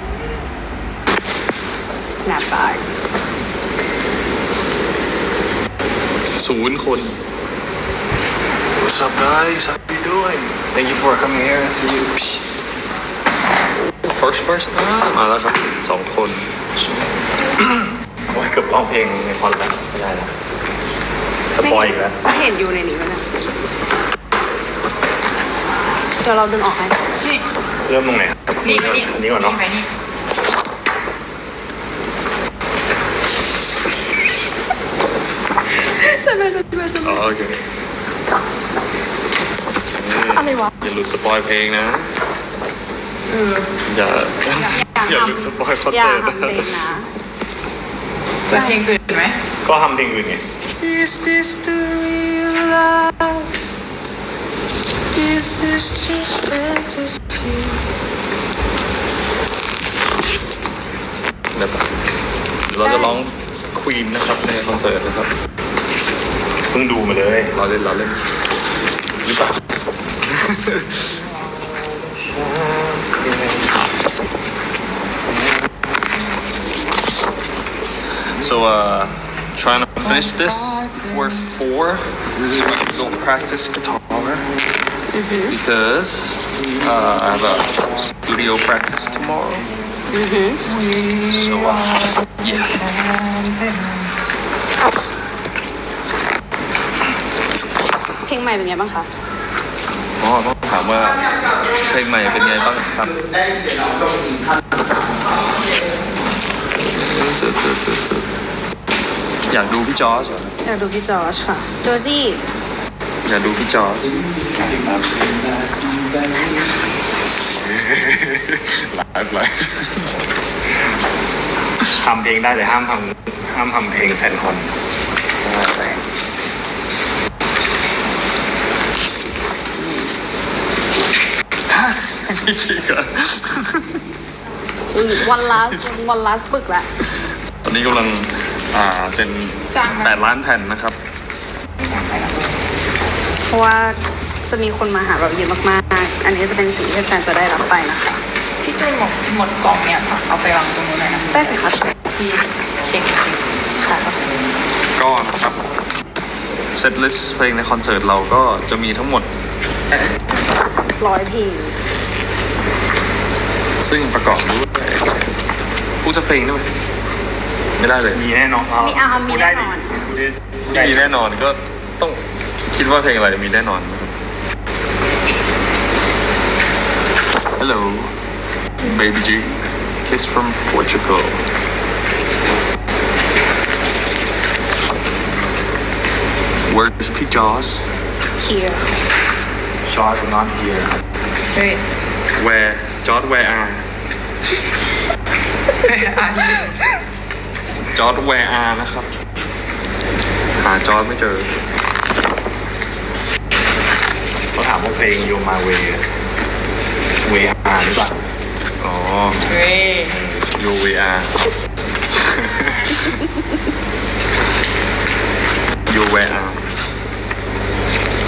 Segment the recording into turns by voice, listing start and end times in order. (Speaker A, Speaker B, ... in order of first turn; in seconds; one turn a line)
Speaker A: 2.1-2.8
Speaker B: 6.3-7.2
Speaker C: 8.8-12.4
Speaker B: 14.0-16.8
Speaker D: 18.3-20.3
Speaker D: 21.5-22.2
Speaker A: 21.6-23.5
Speaker A: 26.2-27.1
Speaker D: 27.9-29.7
Speaker E: 28.6-29.8
Speaker A: 36.3-37.0
Speaker B: 37.0-37.6
Speaker B: 39.9-42.1
Speaker E: 43.3-43.6
Speaker B: 43.8-46.9
Speaker A: 44.8-47.1
Speaker E: 48.5-49.4
Speaker D: 49.6-50.4
Speaker B: 50.8-53.0
Speaker B: 55.1-57.8
Speaker B: 61.5-61.9
Speaker B: 62.7-65.3
Speaker D: 66.7-67.5
Speaker B: 67.5-68.2
Speaker B: 69.2-69.5
Speaker B: 70.3-71.2
Speaker B: 72.2-73.7
Speaker B: 78.4-84.5
Speaker A: 85.1-85.6
Speaker B: 85.5-89.7
Speaker A: 90.1-90.6
Speaker B: 91.3-92.8
Speaker E: 92.8-93.7
Speaker A: 98.2-99.1
Speaker B: 100.2-103.2
Speaker B: 106.8-108.3
Speaker B: 109.5-110.5
Speaker A: 110.6-112.4
Speaker B: 113.2-114.1
Speaker D: 117.8-119.7
Speaker D: 122.0-124.7
Speaker A: 125.7-126.0
Speaker B: 131.7-134.0
Speaker A: 134.9-136.9
Speaker B: 137.2-141.0
Speaker E: 139.7-140.3
Speaker E: 141.8-142.5
Speaker A: 143.5-148.2
Speaker E: 148.6-151.5
Speaker A: 151.3-151.9
Speaker E: 152.1-154.2
Speaker B: 154.9-155.6
Speaker B: 156.7-159.3
Speaker A: 161.0-161.8
Speaker B: 163.8-165.1
Speaker B: 166.0-166.7
Speaker B: 167.8-168.2
Speaker D: 168.1-171.0
Speaker A: 168.8-169.9
Speaker B: 170.7-174.1
Speaker B: 177.6-178.1
Speaker B: 178.8-181.4
Speaker B: 186.7-187.8
Speaker A: 188.4-188.9
Speaker D: 189.8-190.9
Speaker E: 191.5-191.8
Speaker B: 192.3-193.9
Speaker E: 195.8-196.8
Speaker B: 197.9-199.1
Speaker B: 200.6-201.5
Speaker D: 204.5-206.0
Speaker D: 207.2-208.2
Speaker B: 208.8-209.4
Speaker E: 209.4-210.2
Speaker B: 210.2-211.5
Speaker B: 212.2-213.2
Speaker B: 215.9-216.6